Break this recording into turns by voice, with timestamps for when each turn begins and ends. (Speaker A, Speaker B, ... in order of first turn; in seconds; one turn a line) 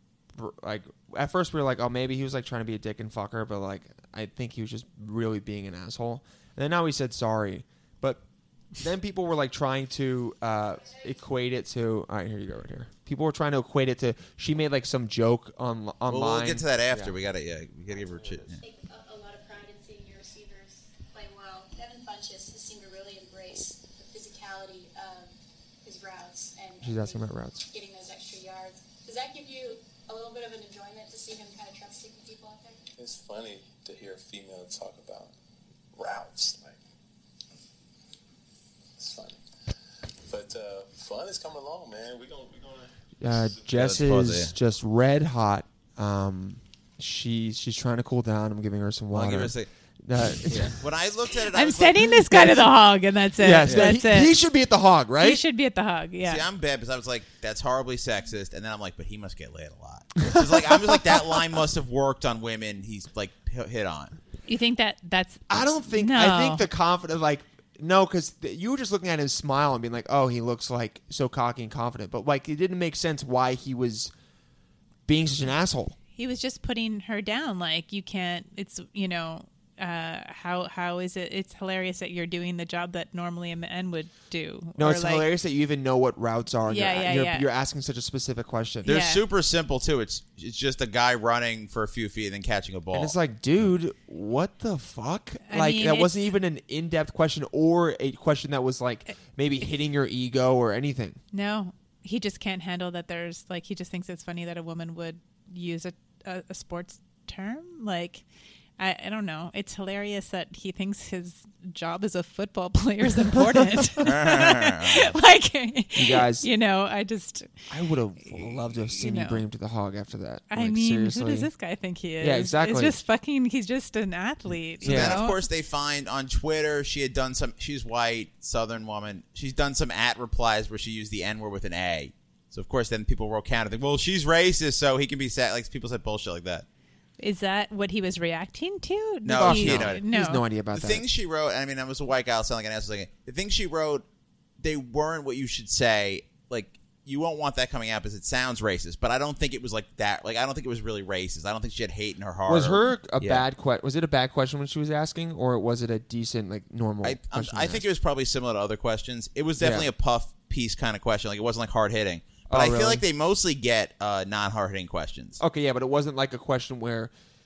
Speaker A: 0.3-8.2
Speaker A: 8.8-17.1
Speaker B: 16.1-18.6
Speaker C: 18.6-25.3
Speaker C: 25.8-32.8
Speaker A: 26.8-27.6
Speaker D: 33.0-35.3
Speaker D: 35.9-36.8
Speaker D: 39.0-39.4
Speaker D: 40.2-42.9
Speaker A: 43.2-50.8
Speaker B: 43.7-44.5
Speaker B: 49.1-49.7
Speaker B: 50.4-52.2
Speaker E: 51.5-54.3
Speaker A: 52.3-52.6
Speaker A: 53.4-55.4
Speaker B: 53.6-53.9
Speaker E: 55.2-56.4
Speaker B: 56.2-64.2
Speaker A: 60.2-61.0
Speaker E: 64.5-66.7
Speaker A: 65.5-74.1
Speaker A: 75.1-76.0
Speaker E: 76.1-85.3
Speaker A: 84.8-88.9
Speaker E: 86.7-87.5
Speaker B: 88.8-93.1
Speaker E: 88.8-89.2
Speaker A: 92.9-101.2
Speaker E: 95.5-96.1
Speaker E: 101.3-108.2
Speaker E: 108.8-117.7
Speaker B: 114.0-115.2
Speaker A: 116.0-116.5
Speaker A: 117.7-121.5
Speaker E: 118.2-119.4
Speaker E: 120.5-125.4
Speaker A: 122.2-123.0
Speaker A: 124.8-125.2
Speaker B: 124.8-136.7
Speaker E: 137.2-140.4
Speaker B: 139.2-140.0
Speaker A: 139.4-141.0
Speaker B: 140.7-144.0
Speaker B: 144.6-153.4
Speaker A: 152.5-157.8
Speaker B: 157.0-165.4
Speaker A: 159.6-159.9
Speaker A: 162.5-163.0
Speaker A: 165.4-167.1